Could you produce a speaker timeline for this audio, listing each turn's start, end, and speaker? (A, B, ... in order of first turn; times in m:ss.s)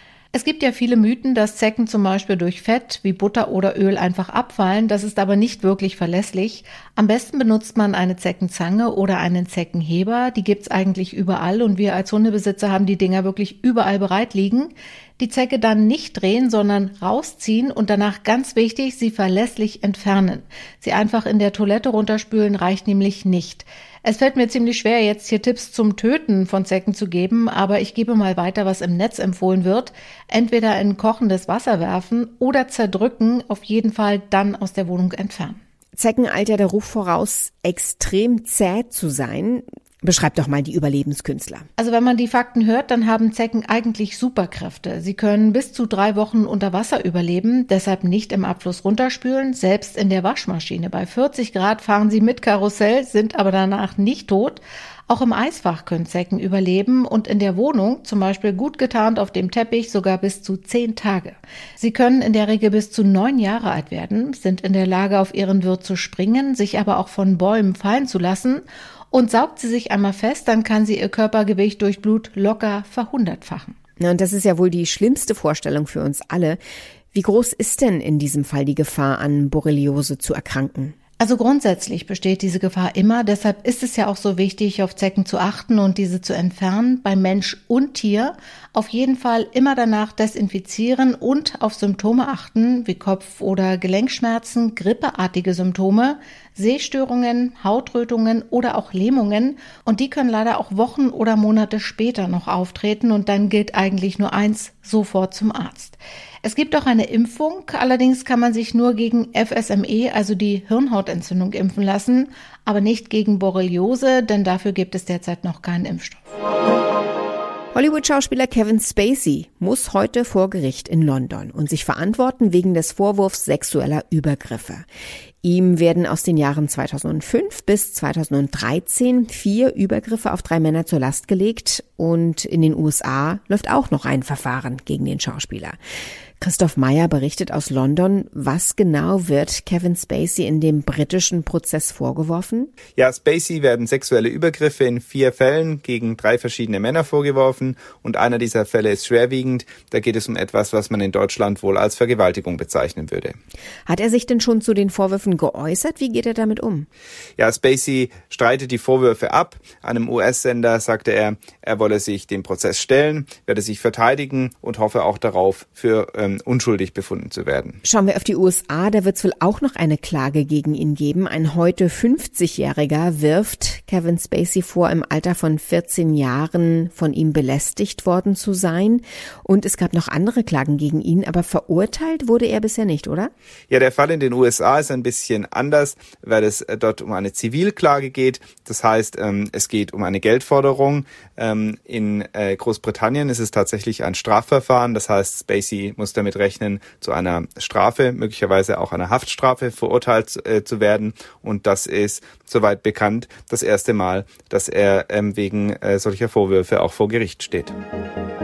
0:00.3-0:35.6 A
0:35.9-0:41.7 B
0:41.8-1:13.7 A
1:14.0-1:16.6 B
1:17.1-1:21.0 B
1:21.2-1:56.3 A
1:57.7-2:04.8 B
2:05.4-2:15.8 B
2:16.4-2:22.7 B
2:23.0-2:33.4 C
2:33.9-2:36.9 B
2:37.4-2:47.8 C
2:47.8-3:03.3 B
3:03.7-3:27.8 C